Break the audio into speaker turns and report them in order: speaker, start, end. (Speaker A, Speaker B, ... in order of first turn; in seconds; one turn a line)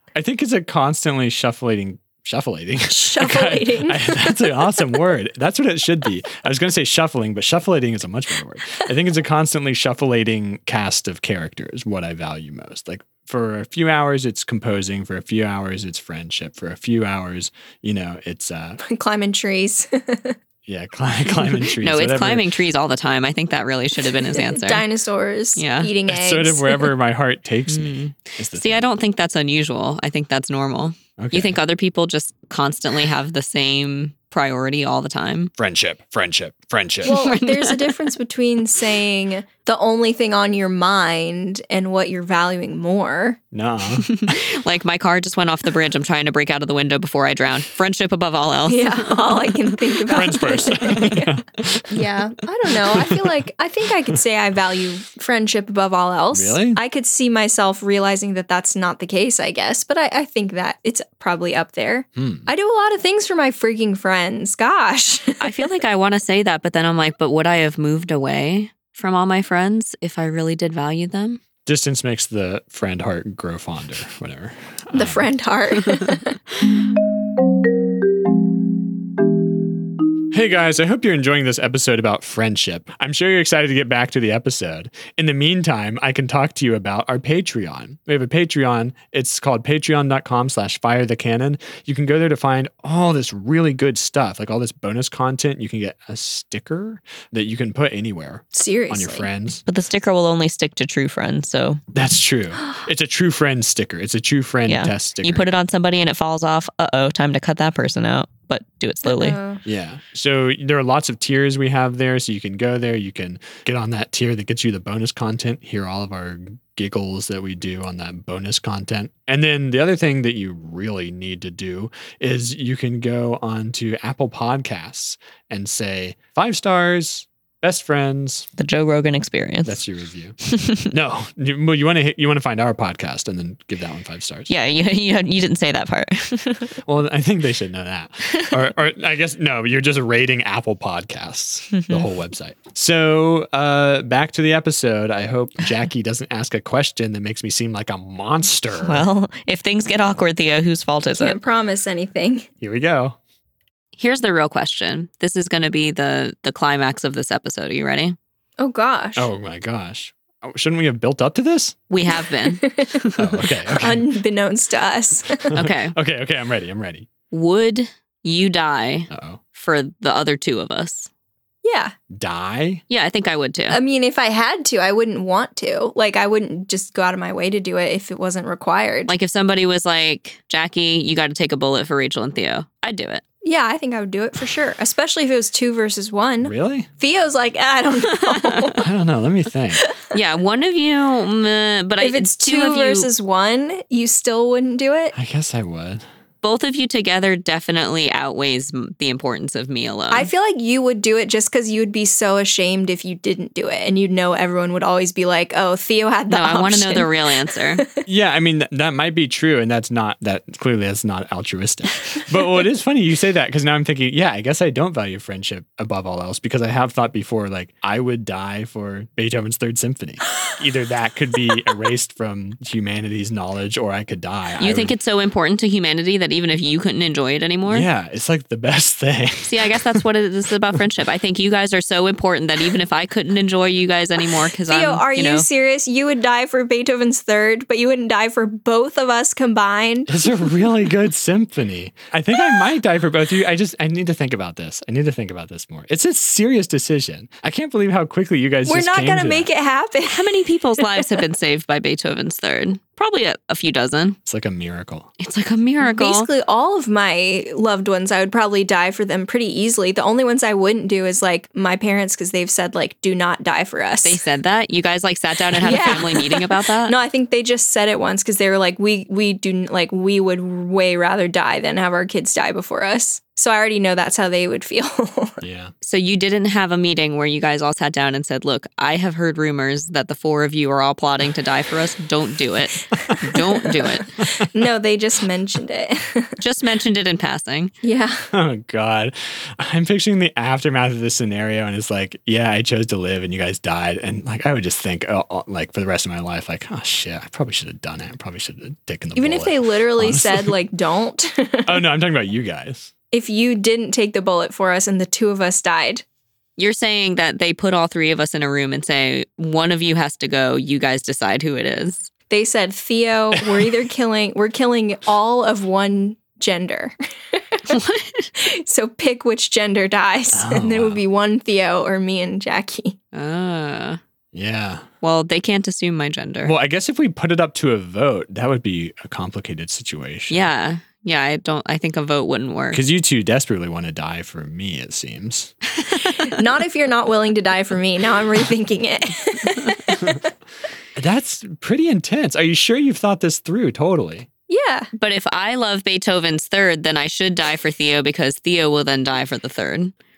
Speaker A: 0.1-18.8
Speaker B: 2.9-4.8
Speaker B: 18.8-20.4
Speaker A: 20.7-22.5
Speaker C: 21.7-24.8
Speaker B: 24.2-26.9
Speaker C: 25.6-25.9
Speaker A: 26.1-28.8
Speaker C: 27.7-35.5
Speaker A: 31.2-31.6
Speaker A: 35.6-37.3
Speaker B: 37.0-43.4
Speaker C: 37.1-38.0
Speaker A: 43.5-44.4
Speaker C: 44.1-50.1
Speaker B: 48.7-65.8
Speaker A: 50.1-51.9
Speaker A: 56.3-56.8
Speaker A: 62.2-62.5
Speaker C: 65.4-71.4
Speaker A: 71.7-75.3
Speaker B: 74.9-76.4
Speaker A: 80.3-99.6
Speaker B: 98.5-99.3
Speaker C: 99.7-101.8
Speaker A: 101.9-105.5
Speaker C: 104.7-109.4
Speaker B: 109.0-109.6
Speaker A: 109.7-128.5
Speaker C: 128.6-129.8
Speaker A: 129.6-134.5
Speaker C: 130.4-130.9
Speaker C: 134.5-136.8
Speaker A: 136.8-149.1
Speaker C: 148.8-151.4
Speaker B: 151.2-152.5
Speaker A: 152.6-153.2
Speaker C: 154.0-158.2
Speaker B: 158.6-159.3
Speaker A: 159.2-161.8
Speaker C: 161.9-163.2
Speaker B: 162.1-163.1
Speaker A: 163.2-164.1
Speaker B: 163.7-165.5
Speaker A: 165.4-167.1
Speaker C: 165.6-165.9
Speaker C: 167.3-171.1
Speaker A: 169.1-169.4
Speaker B: 171.6-171.9
Speaker A: 172.1-172.8
Speaker C: 172.9-173.8
Speaker B: 173.7-179.1
Speaker C: 179.1-183.2
Speaker B: 183.4-188.9
Speaker A: 186.4-186.9
Speaker C: 188.2-188.7
Speaker A: 188.8-189.9
Speaker C: 190.1-193.1
Speaker B: 192.0-195.1
Speaker A: 195.1-196.0
Speaker C: 196.4-200.3
Speaker B: 200.1-208.0
Speaker C: 206.3-207.8
Speaker A: 208.1-224.9
Speaker C: 224.6-227.9
Speaker A: 227.7-230.0
Speaker C: 229.5-235.5
Speaker B: 234.7-240.2
Speaker A: 240.1-249.5
Speaker B: 248.7-251.2
Speaker C: 250.1-254.2
Speaker A: 254.2-255.1
Speaker C: 255.2-256.3
Speaker B: 255.8-264.2
Speaker C: 264.1-266.9
Speaker B: 265.6-275.4
Speaker A: 275.4-275.7
Speaker C: 275.8-284.3
Speaker A: 284.2-284.5
Speaker B: 284.4-286.4
Speaker C: 286.4-287.7
Speaker B: 287.8-288.3
Speaker A: 288.3-300.5
Speaker B: 299.2-301.8
Speaker A: 301.7-302.9
Speaker B: 303.1-306.0
Speaker C: 306.6-312.1
Speaker B: 312.3-317.8
Speaker C: 317.7-318.3
Speaker B: 318.4-323.0
Speaker A: 320.3-321.0
Speaker C: 323.1-324.0
Speaker A: 324.3-324.9
Speaker C: 325.0-326.5
Speaker A: 326.4-330.5
Speaker C: 330.3-332.8
Speaker A: 332.7-335.6
Speaker B: 336.0-340.3
Speaker A: 341.0-344.3
Speaker B: 344.5-344.9
Speaker C: 345.0-349.9